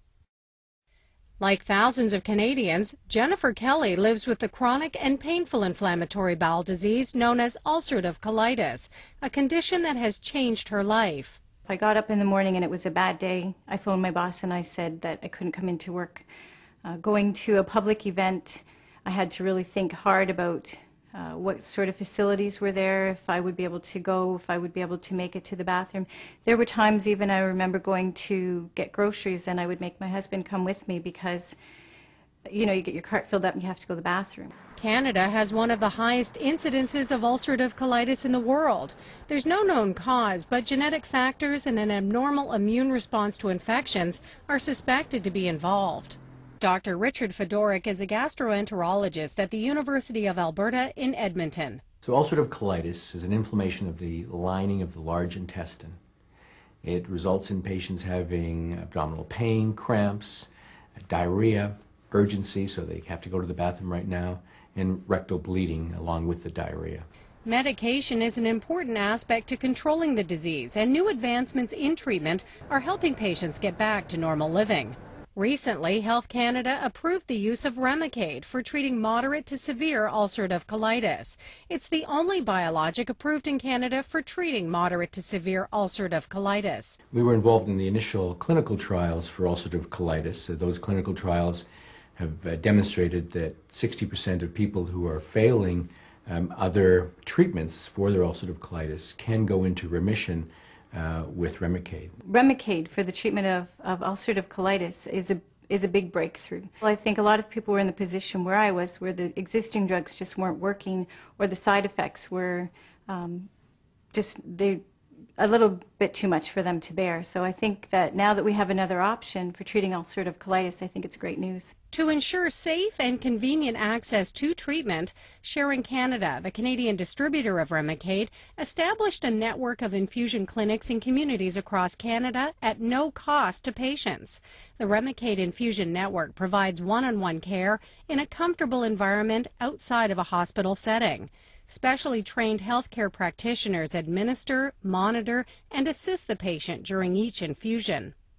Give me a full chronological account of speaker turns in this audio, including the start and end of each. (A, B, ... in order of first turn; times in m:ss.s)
0:01.4-0:11.4 A
0:11.7-0:16.3 B
0:16.8-0:31.6 B
0:32.5-0:34.5 B
0:34.8-0:51.8 A
0:52.0-0:56.0 C
0:56.8-1:07.1 C
1:07.4-1:27.0 A
1:27.1-1:31.7 C
1:32.2-1:42.2 C
1:42.2-1:53.5 B
1:54.1-1:54.8 B
1:55.4-2:01.7 B
2:01.9-2:28.1 A